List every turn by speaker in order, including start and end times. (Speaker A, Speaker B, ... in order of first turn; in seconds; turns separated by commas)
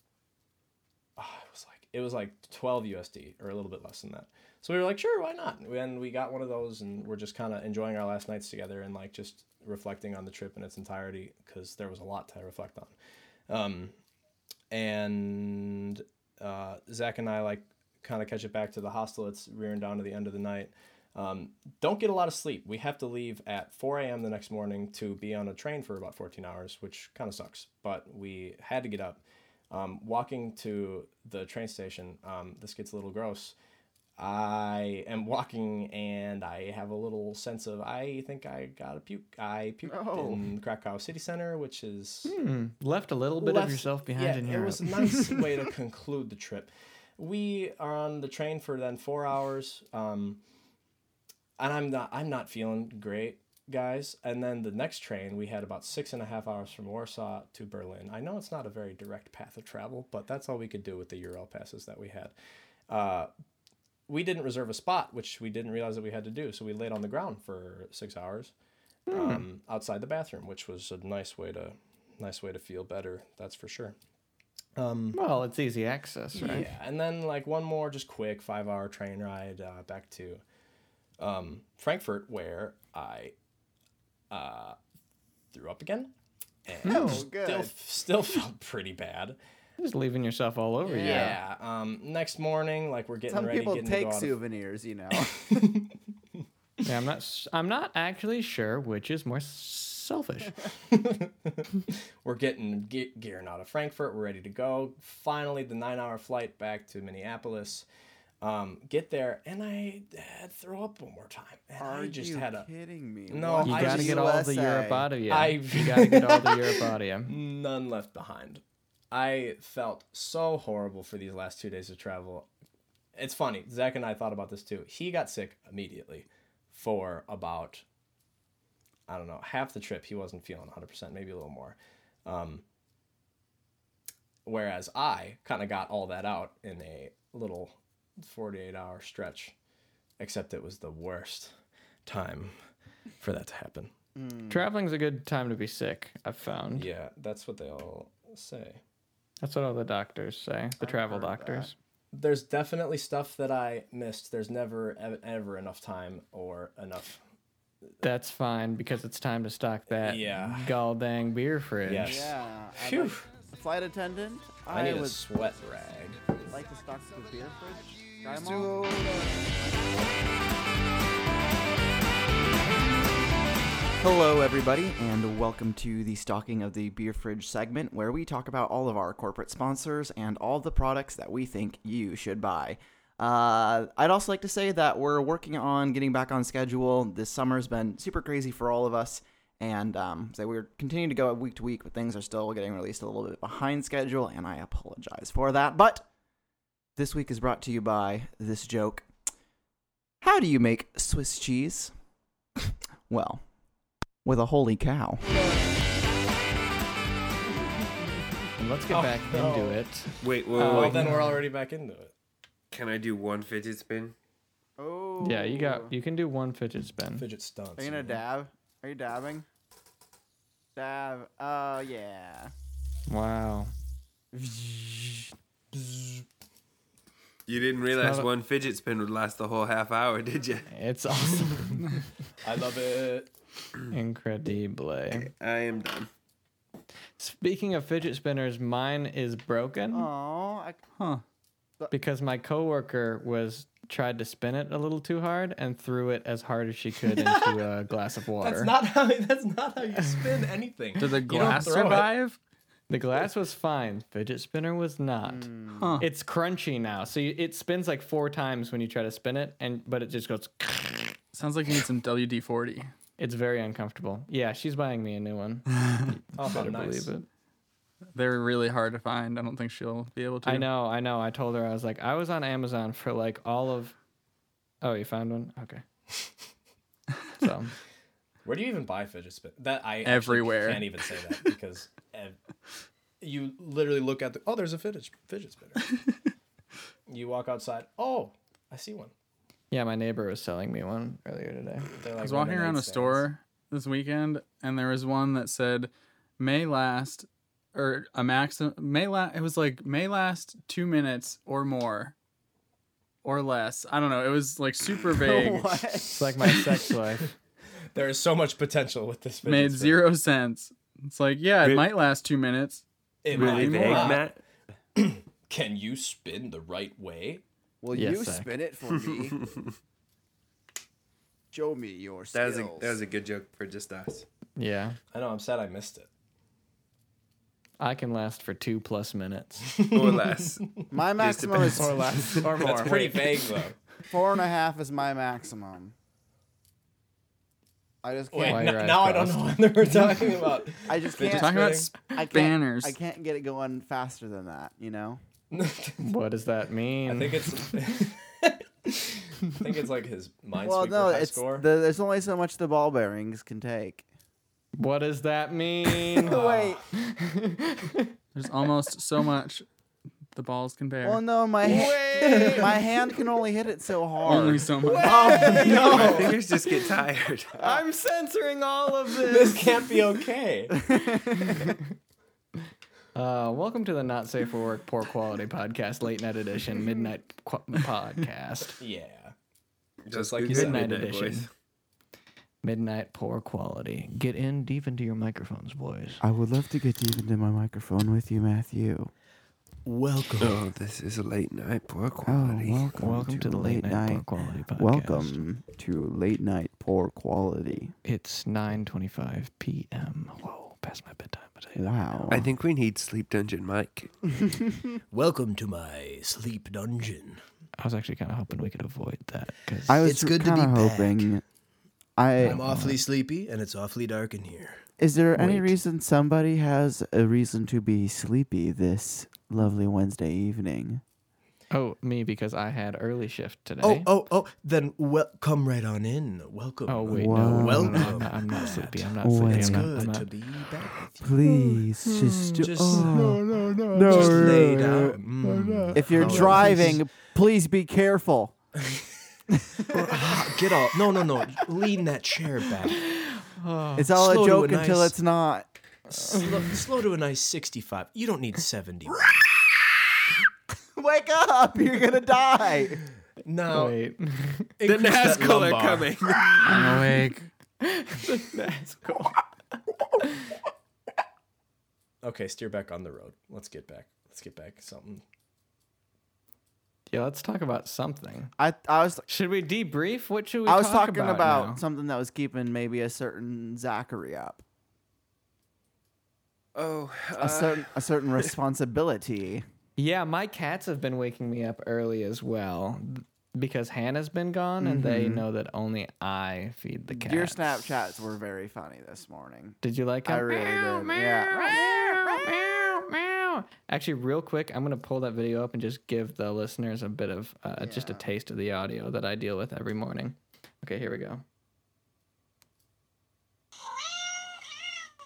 Speaker A: 1.2-12.9, Speaker A: 13.5-13.9, Speaker A: 14.7-33.5, Speaker A: 34.2-42.3, Speaker B: 39.9-40.5, Speaker C: 42.3-45.2, Speaker A: 43.4-50.4, Speaker A: 51.6-62.3, Speaker A: 62.9-63.3, Speaker A: 64.1-68.5, Speaker C: 69.1-69.4, Speaker A: 69.1-74.0, Speaker A: 74.8-75.2, Speaker C: 75.1-76.7, Speaker A: 76.3-80.4, Speaker A: 81.2-83.3, Speaker A: 84.3-84.8, Speaker A: 85.5-86.1, Speaker A: 86.7-89.4, Speaker C: 86.8-87.2, Speaker B: 86.8-87.7, Speaker C: 89.8-91.4, Speaker B: 90.8-91.3, Speaker A: 91.0-94.3, Speaker B: 93.3-95.6, Speaker A: 95.3-96.0, Speaker C: 96.8-100.7, Speaker A: 100.8-107.9, Speaker A: 108.4-112.7, Speaker B: 111.8-115.1, Speaker A: 113.3-114.3, Speaker C: 113.6-117.3, Speaker A: 115.3-116.7, Speaker A: 117.3-122.5, Speaker A: 123.2-127.8, Speaker A: 129.1-132.6, Speaker A: 134.4-139.5, Speaker A: 140.2-141.5, Speaker A: 142.1-142.6, Speaker A: 143.2-143.9, Speaker B: 144.2-144.6, Speaker C: 144.5-146.9, Speaker A: 146.7-148.8, Speaker C: 149.4-151.7, Speaker B: 150.8-151.7, Speaker A: 152.1-157.2, Speaker C: 158.0-162.3, Speaker A: 159.9-160.7, Speaker A: 161.8-163.2, Speaker B: 162.0-165.2, Speaker A: 164.7-166.2, Speaker B: 166.5-169.6, Speaker B: 174.0-196.1, Speaker B: 196.9-199.1, Speaker B: 200.2-201.9, Speaker B: 203.1-203.4, Speaker B: 204.2-205.2, Speaker C: 208.6-211.4, Speaker A: 208.9-209.8, Speaker D: 210.2-211.2, Speaker A: 210.6-212.1, Speaker D: 212.7-214.1, Speaker B: 214.8-215.9, Speaker C: 215.2-217.2, Speaker A: 217.2-218.2, Speaker B: 217.8-219.4, Speaker B: 220.7-222.5, Speaker C: 223.1-223.7, Speaker B: 224.3-225.3, Speaker D: 227.5-230.7, Speaker C: 228.0-228.3, Speaker C: 230.7-232.0, Speaker A: 232.4-233.3, Speaker C: 233.9-235.3, Speaker D: 235.1-236.1, Speaker C: 237.2-240.1, Speaker B: 239.9-240.8, Speaker E: 241.0-241.2, Speaker C: 241.9-248.7, Speaker A: 248.4-252.1, Speaker C: 250.0-250.3, Speaker E: 251.0-252.4, Speaker C: 251.4-251.6, Speaker C: 252.9-261.2, Speaker B: 255.2-256.0, Speaker E: 255.8-256.1, Speaker E: 261.3-262.9, Speaker C: 263.2-267.3, Speaker E: 265.7-266.1, Speaker A: 266.4-267.1, Speaker E: 268.1-270.7, Speaker C: 270.4-273.9, Speaker C: 274.8-275.8, Speaker C: 277.4-277.8, Speaker A: 278.4-282.4, Speaker E: 280.0-281.3, Speaker A: 283.2-285.9, Speaker A: 287.1-289.1, Speaker C: 289.7-291.9, Speaker A: 291.9-293.3, Speaker E: 292.2-302.1, Speaker E: 303.2-306.0, Speaker B: 305.1-306.6, Speaker C: 306.1-307.3, Speaker A: 307.9-310.1, Speaker E: 309.4-314.2, Speaker D: 311.6-311.9, Speaker A: 313.2-314.3, Speaker D: 313.3-314.4, Speaker A: 314.9-317.4, Speaker B: 317.8-319.5, Speaker C: 317.9-318.5, Speaker B: 321.5-323.0, Speaker D: 322.3-324.3, Speaker C: 324.6-325.0, Speaker A: 325.1-326.1, Speaker C: 327.8-329.8, Speaker A: 329.7-330.8, Speaker D: 329.9-332.7, Speaker B: 330.9-332.1, Speaker C: 331.7-333.3, Speaker A: 332.6-333.8, Speaker B: 334.1-335.9, Speaker B: 338.0-338.7, Speaker A: 338.3-341.9, Speaker C: 338.4-340.2, Speaker B: 340.9-345.2, Speaker E: 341.2-342.9, Speaker A: 345.5-346.1, Speaker C: 346.0-347.7, Speaker A: 347.1-351.7, Speaker B: 350.6-354.0, Speaker C: 354.8-358.1, Speaker B: 356.1-356.8, Speaker A: 356.2-356.8, Speaker E: 358.3-359.6, Speaker E: 360.3-361.2, Speaker B: 361.0-366.0, Speaker C: 361.6-362.8, Speaker A: 362.1-362.7, Speaker E: 364.2-365.5, Speaker A: 364.9-366.4, Speaker C: 364.9-366.9, Speaker D: 365.6-367.6, Speaker C: 367.6-370.0, Speaker A: 369.2-370.8, Speaker B: 370.9-371.6, Speaker C: 371.2-371.9, Speaker C: 373.1-378.8, Speaker A: 378.8-379.3, Speaker D: 380.1-381.5, Speaker A: 380.1-380.9, Speaker C: 380.5-381.5, Speaker C: 382.6-386.2, Speaker B: 386.2-389.1, Speaker A: 389.8-390.6, Speaker D: 390.4-392.9, Speaker B: 392.2-397.9, Speaker C: 393.0-395.4, Speaker C: 398.0-401.9, Speaker B: 401.8-402.5, Speaker D: 402.3-404.1, Speaker A: 405.1-407.4, Speaker C: 407.8-410.0, Speaker B: 409.9-411.4, Speaker A: 410.0-411.3, Speaker B: 412.2-412.6, Speaker C: 412.4-413.0, Speaker A: 412.4-414.8, Speaker B: 415.0-421.0, Speaker C: 421.7-424.1, Speaker A: 423.8-431.5, Speaker C: 426.9-430.3, Speaker B: 427.1-428.2, Speaker B: 429.2-430.0, Speaker B: 431.2-435.2, Speaker C: 432.0-434.8, Speaker A: 432.6-437.0, Speaker C: 435.4-437.0, Speaker B: 435.9-438.5, Speaker A: 438.8-439.1, Speaker B: 439.5-440.4, Speaker A: 439.8-443.0, Speaker C: 443.0-444.1, Speaker B: 443.9-445.7, Speaker A: 444.1-445.1, Speaker A: 446.1-449.3, Speaker C: 446.3-446.7, Speaker B: 450.9-453.0, Speaker A: 453.4-453.9, Speaker C: 453.7-454.7, Speaker A: 454.8-456.6, Speaker D: 454.8-456.7, Speaker E: 456.6-457.5, Speaker C: 456.7-457.2, Speaker C: 457.8-459.4, Speaker C: 460.2-460.5, Speaker A: 462.2-465.2, Speaker C: 467.1-468.5, Speaker B: 468.6-469.2, Speaker C: 469.3-471.8, Speaker B: 470.6-474.6, Speaker D: 476.7-478.5, Speaker B: 477.4-479.6, Speaker C: 480.0-487.8, Speaker B: 484.8-485.4, Speaker B: 487.1-492.9, Speaker C: 489.8-501.4, Speaker B: 497.8-498.2